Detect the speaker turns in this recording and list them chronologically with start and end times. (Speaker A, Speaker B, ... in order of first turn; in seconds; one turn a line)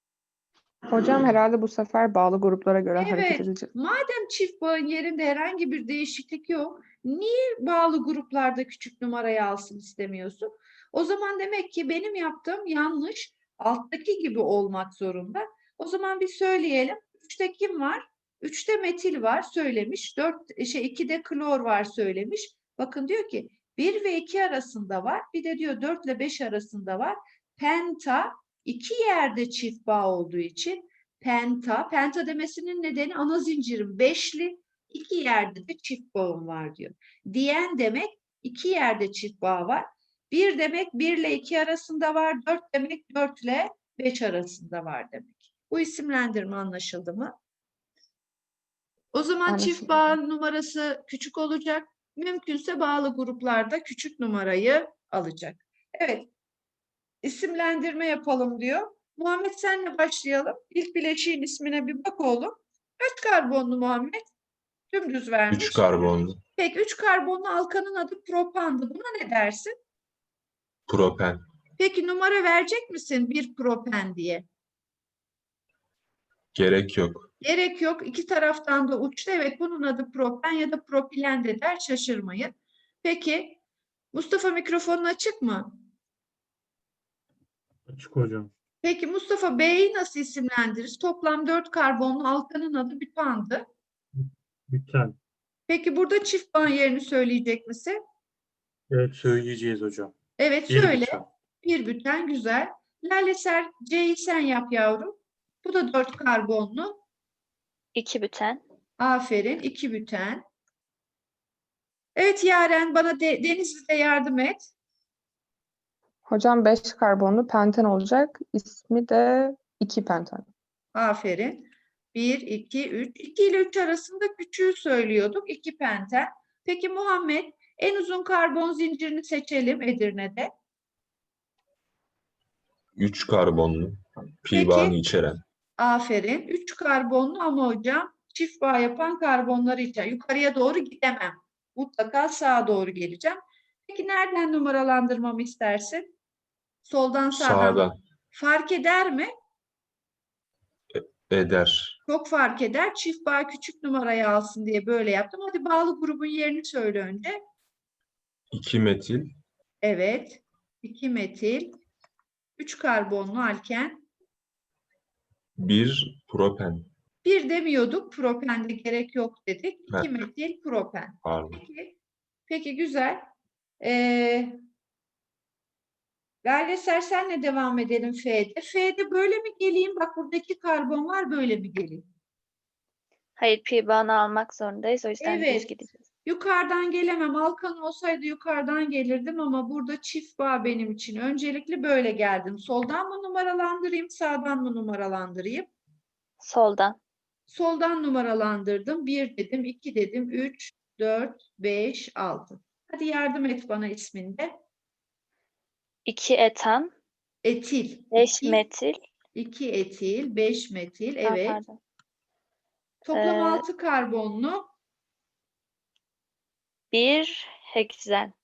Speaker A: 0.9-3.7
Speaker B: 3.0-47.3
Speaker B: 49.1-56.3
Speaker A: 49.5-50.1
Speaker B: 57.2-64.2
Speaker B: 64.9-69.7
Speaker C: 65.5-66.4
Speaker C: 70.9-71.4
Speaker B: 71.8-74.5
Speaker C: 76.5-77.3
Speaker B: 77.4-83.6
Speaker B: 84.1-85.8
Speaker D: 87.8-88.5
Speaker B: 88.8-93.6
Speaker D: 94.2-95.2
Speaker B: 95.7-98.0
Speaker D: 98.9-100.1
Speaker B: 100.4-107.0
Speaker D: 100.7-101.3
Speaker E: 107.9-108.6
Speaker B: 109.0-110.4
Speaker B: 112.2-114.7
Speaker A: 116.3-120.5
Speaker B: 120.9-130.5
Speaker C: 132.9-135.4
Speaker B: 134.5-134.9
Speaker B: 135.8-146.1
Speaker B: 146.8-149.3
Speaker C: 147.3-147.9
Speaker C: 150.9-152.0
Speaker B: 152.1-157.4
Speaker C: 158.5-159.3
Speaker B: 159.8-161.8
Speaker B: 162.6-164.0
Speaker C: 165.6-166.9
Speaker B: 167.2-171.9
Speaker C: 171.2-171.6
Speaker B: 172.5-173.3
Speaker B: 173.8-174.6
Speaker B: 176.4-182.1
Speaker E: 183.4-186.0
Speaker B: 185.2-195.7
Speaker E: 196.4-197.0
Speaker B: 197.5-204.5
Speaker E: 206.1-206.9
Speaker B: 207.4-208.6
Speaker E: 208.1-209.0
Speaker B: 209.3-211.6
Speaker E: 211.2-211.8
Speaker B: 213.0-214.7
Speaker E: 213.1-213.6
Speaker E: 216.9-218.3